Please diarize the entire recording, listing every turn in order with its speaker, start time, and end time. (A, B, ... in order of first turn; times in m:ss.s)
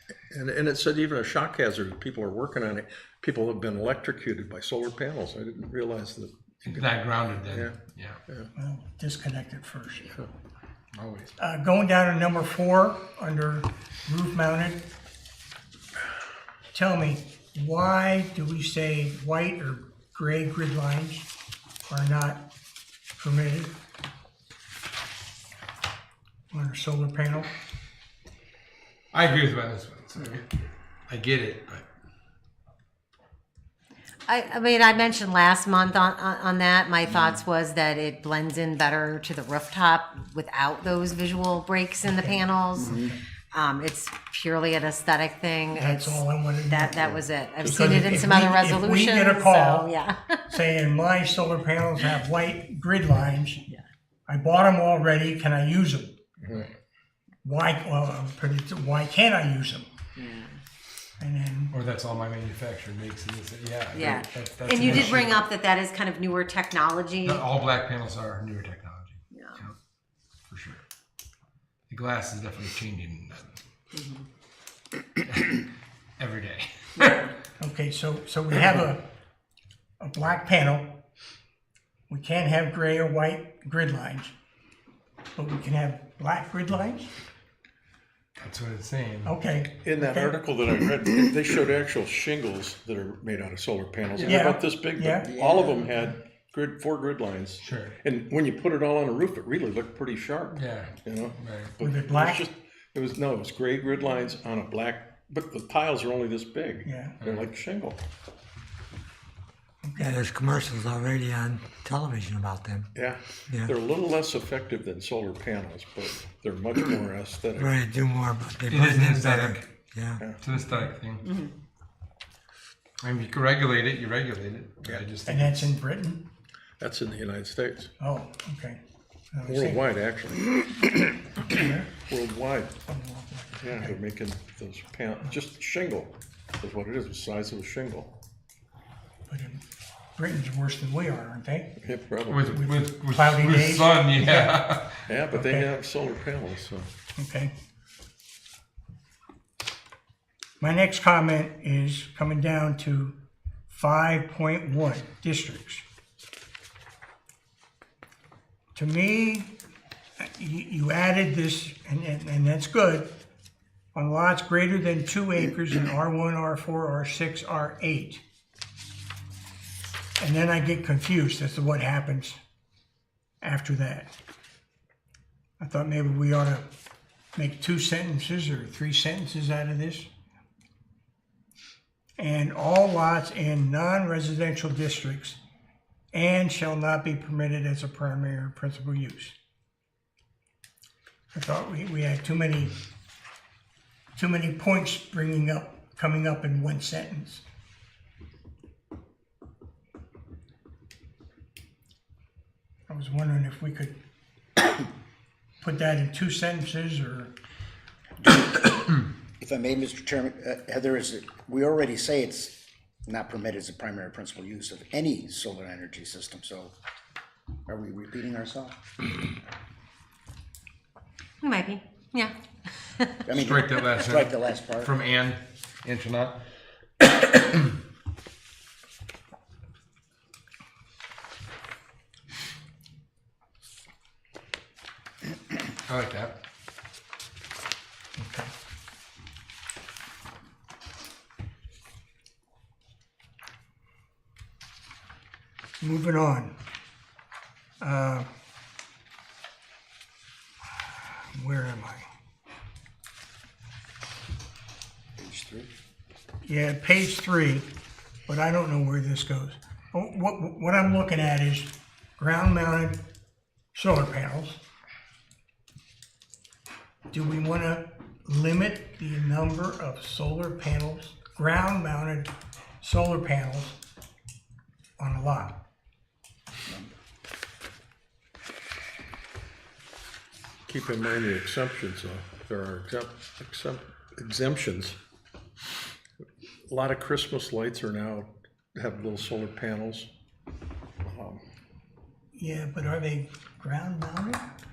0:00.3-0:07.8 A
0:06.7-0:08.2 B
0:08.5-0:10.2 C
0:10.9-0:11.3 B
0:11.4-0:14.9 C
0:16.7-0:21.3 C
0:21.9-0:22.5 C
0:23.2-0:23.7 C
0:26.5-0:27.5 C
0:29.1-0:30.5 B
0:31.1-0:31.8 B
0:34.3-0:43.0 D
0:42.0-0:43.2 C
0:42.8-0:43.1 E
0:43.5-0:50.4 D
0:45.7-0:49.9 C
0:47.6-0:48.4 A
0:50.5-0:53.6 C
0:54.3-0:56.2 C
0:56.4-0:56.7 A
0:56.5-0:56.8 B
0:57.4-0:59.9 C
1:00.2-1:00.5 D
1:01.2-1:01.7 C
1:01.7-1:05.4 B
1:03.9-1:07.4 D
1:07.2-1:09.7 B
1:09.3-1:09.6 D
1:10.5-1:10.8 B
1:11.9-1:13.6 B
1:14.0-1:14.2 D
1:15.3-1:15.6 B
1:16.2-1:17.3 B
1:17.6-1:19.1 C
1:20.0-1:21.0 C
1:22.1-1:24.3 C
1:25.3-1:27.1 C
1:28.4-1:29.3 B
1:29.2-1:30.4 C
1:29.8-1:48.0 A
1:34.2-1:34.5 B
1:34.2-1:35.3 C
1:35.3-1:35.8 E
1:37.6-1:38.0 B
1:40.5-1:41.7 B
1:41.8-1:42.5 C
1:46.8-1:47.2 C
1:47.2-1:47.5 B
1:49.8-1:50.2 C
1:50.0-1:52.9 F
1:52.9-1:57.7 A
1:53.5-1:53.7 F
1:57.5-2:00.3 F
1:58.7-1:59.7 B
2:00.4-2:01.2 B
2:03.0-2:05.7 B
2:05.2-2:06.2 C
2:06.8-2:07.9 A
2:08.0-2:08.8 C
2:09.3-2:09.8 C
2:09.4-2:10.6 A
2:11.4-2:11.9 C
2:11.5-2:12.7 A
2:12.9-2:14.0 C
2:13.6-2:18.1 A
2:19.3-2:19.6 C
2:20.2-2:21.8 C
2:21.8-2:22.5 A
2:22.3-2:25.0 B
2:22.5-2:24.7 C
2:25.1-2:26.9 A
2:25.3-2:25.7 C
2:27.2-2:27.5 C
2:30.6-2:33.2 C
2:33.7-2:35.8 C
2:38.7-2:39.6 C
2:40.2-2:43.1 C
2:43.9-2:48.2 C
2:50.2-2:52.4 C
2:53.4-2:54.1 C
2:55.6-2:56.7 C
2:57.3-3:00.1 C
3:02.2-3:05.4 C
3:06.1-3:09.4 C
3:11.3-3:12.7 C
3:14.2-3:17.4 C
3:22.9-3:24.0 C
3:25.6-3:27.3 C
3:28.2-3:36.7 E
3:37.7-3:38.8 E
3:41.4-3:43.3 D
3:43.3-3:44.9 E
3:43.3-3:46.4 B
3:47.2-3:47.6 B
3:55.9-3:56.4 B
3:58.2-3:58.5 C
4:05.8-4:06.6 C
4:07.8-4:08.3 C
4:11.3-4:12.1 C
4:15.2-4:15.7 E
4:16.4-4:17.7 C
4:18.3-4:23.0 C
4:23.7-4:24.6 C
4:27.1-4:33.8 C
4:35.0-4:35.6 C
4:36.7-4:36.9 E
4:40.6-4:45.0 A
4:46.7-4:50.1 A
4:51.0-4:51.4 A
4:52.3-4:54.4 C